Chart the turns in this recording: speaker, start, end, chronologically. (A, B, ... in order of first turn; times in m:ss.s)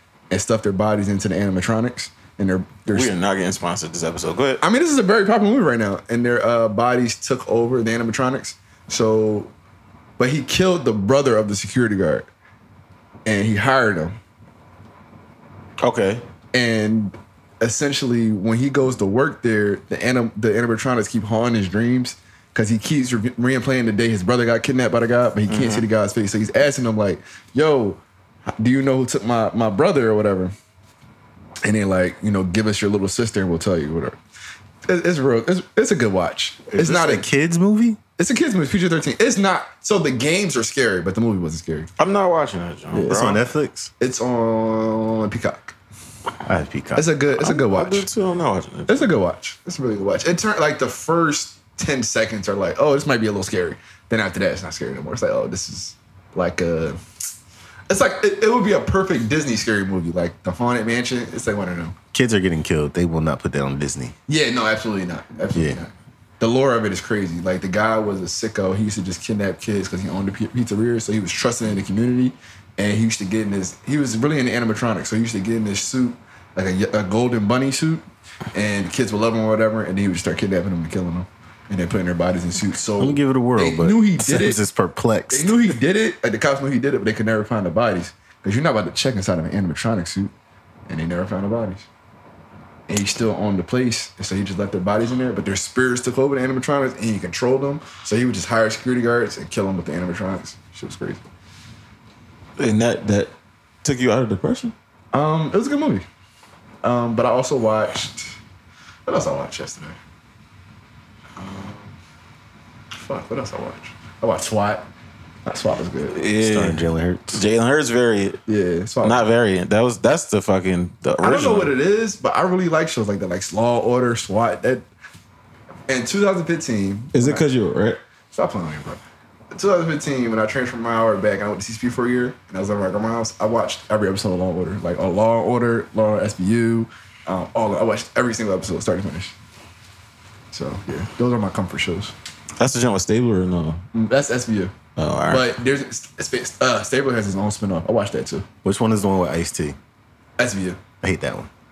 0:00.3-0:03.1 A
0:02.9-0:04.6 B
0:04.6-0:09.5 A
0:10.2-0:12.3 A
0:13.2-0:14.2 A
0:15.8-0:16.2 B
0:16.5-0:28.0 A
0:25.5-0:25.9 B
0:28.6-0:30.5 A
0:31.6-0:34.2 A
0:34.8-0:37.2 A
0:36.7-0:38.0 C
0:38.2-0:41.9 A
0:42.0-0:43.4 B
0:42.9-0:43.2 A
0:43.0-0:43.9 C
0:44.0-0:45.7 A
0:46.4-0:47.1 C
0:46.9-0:48.1 A
0:47.4-0:49.1 B
0:48.9-0:57.0 A
0:57.9-1:02.0 A
1:02.1-1:04.1 C
1:04.3-1:24.6 A
1:05.5-1:05.8 C
1:23.0-1:25.7 C
1:25.3-1:30.3 A
1:30.9-1:31.8 A
1:32.9-1:41.2 A
1:42.6-1:43.3 B
1:43.8-1:44.7 B
1:45.1-1:46.0 A
1:46.8-1:48.3 A
1:49.0-1:50.0 A
1:51.4-1:51.9 A
1:52.9-1:54.9 A
1:55.4-1:56.2 A
1:56.1-1:58.4 B
1:56.4-1:57.4 C
1:58.5-1:59.2 A
1:59.0-2:01.7 B
2:01.2-2:04.8 A
2:05.9-2:07.4 A
2:07.1-2:08.0 B
2:08.3-2:19.3 A
2:20.5-2:22.1 A
2:22.6-2:23.8 B
2:23.9-2:24.7 A
2:25.0-2:25.5 B
2:25.3-2:28.4 A
2:28.6-2:29.8 C
2:30.4-2:30.8 A
2:31.0-2:31.5 C